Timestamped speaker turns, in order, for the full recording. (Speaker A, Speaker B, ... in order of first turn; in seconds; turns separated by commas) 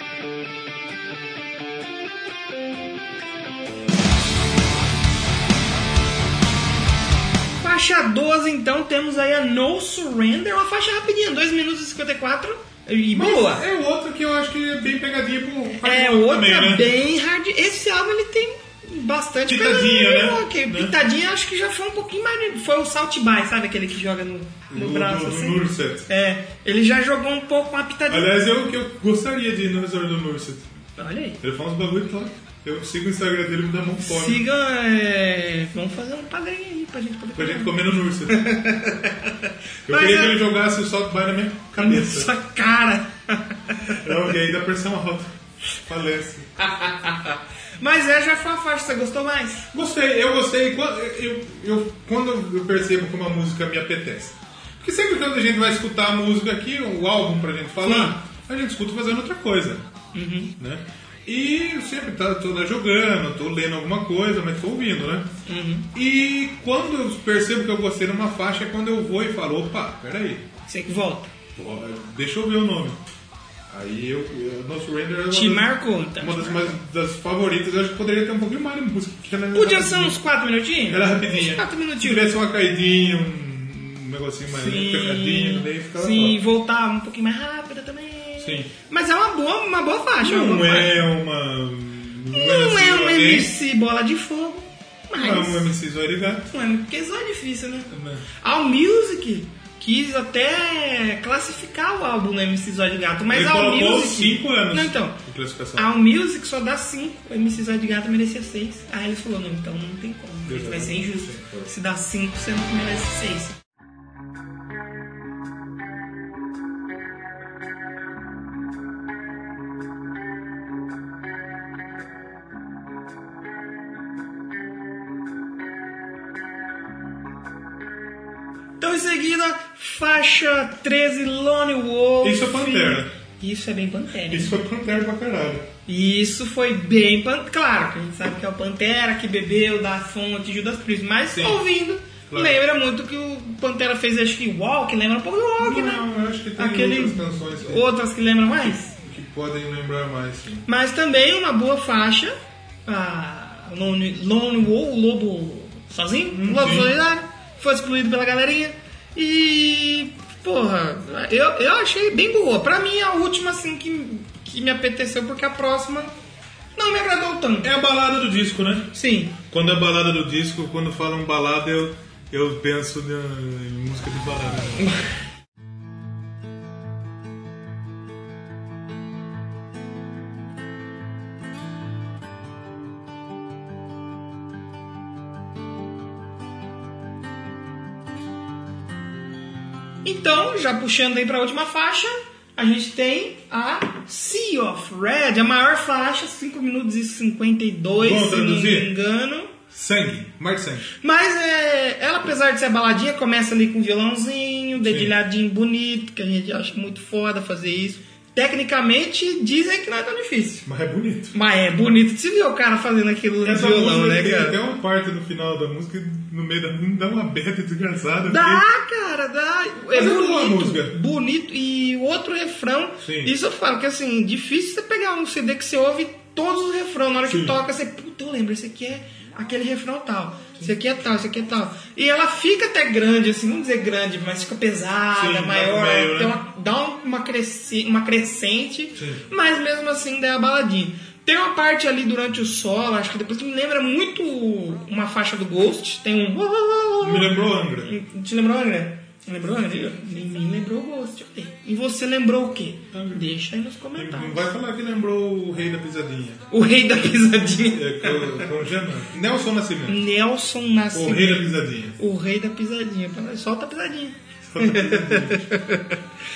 Speaker A: 7.6-13.6, Speaker B: 13.1-16.9, Speaker A: 15.8-28.3, Speaker B: 19.4-20.9, Speaker B: 24.7-26.1, Speaker B: 28.1-30.7, Speaker A: 31.0-31.4, Speaker B: 31.4-34.4, Speaker A: 34.0-39.3, Speaker B: 37.3-38.5, Speaker B: 39.9-42.3, Speaker A: 39.9-40.4, Speaker A: 41.8-44.0, Speaker B: 43.9-46.5, Speaker A: 46.7-47.1, Speaker A: 47.8-49.7, Speaker B: 49.7-59.8, Speaker A: 57.8-58.2, Speaker A: 60.1-60.5, Speaker B: 60.6-65.3, Speaker A: 65.5-65.9, Speaker B: 65.9-70.4, Speaker A: 70.7-71.3, Speaker B: 71.5-73.0, Speaker B: 73.7-80.2, Speaker A: 75.3-76.8, Speaker A: 79.5-82.3, Speaker B: 80.9-86.4, Speaker A: 84.5-91.0, Speaker B: 88.4-88.7, Speaker B: 90.2-93.5, Speaker A: 92.3-95.7, Speaker B: 95.1-96.5, Speaker A: 96.5-105.2, Speaker B: 97.9-98.2, Speaker B: 103.3-105.9, Speaker A: 105.8-113.6, Speaker B: 110.4-111.7, Speaker A: 128.8-134.5, Speaker B: 132.2-133.1, Speaker B: 134.3-135.7, Speaker A: 135.8-148.9, Speaker B: 141.3-141.7, Speaker B: 142.3-142.6, Speaker B: 145.6-147.9, Speaker B: 148.6-150.7, Speaker A: 150.7-152.3, Speaker A: 152.8-166.1, Speaker B: 156.3-156.9, Speaker A: 166.8-167.7, Speaker B: 167.6-174.9, Speaker A: 168.9-169.4, Speaker A: 190.0-199.5, Speaker B: 198.0-198.9, Speaker B: 199.7-200.9, Speaker A: 201.0-210.7, Speaker B: 204.8-205.1, Speaker B: 210.6-211.3, Speaker A: 211.3-214.6, Speaker B: 213.4-218.6, Speaker A: 218.3-254.5, Speaker B: 219.9-221.0, Speaker B: 223.0-223.3, Speaker B: 227.3-227.6, Speaker B: 235.1-236.4, Speaker B: 238.9-239.2, Speaker B: 247.0-247.9, Speaker B: 252.9-253.2, Speaker B: 253.9-256.4, Speaker A: 256.5-258.5, Speaker B: 257.7-260.0, Speaker A: 259.9-265.8, Speaker B: 260.9-262.0, Speaker B: 264.5-265.5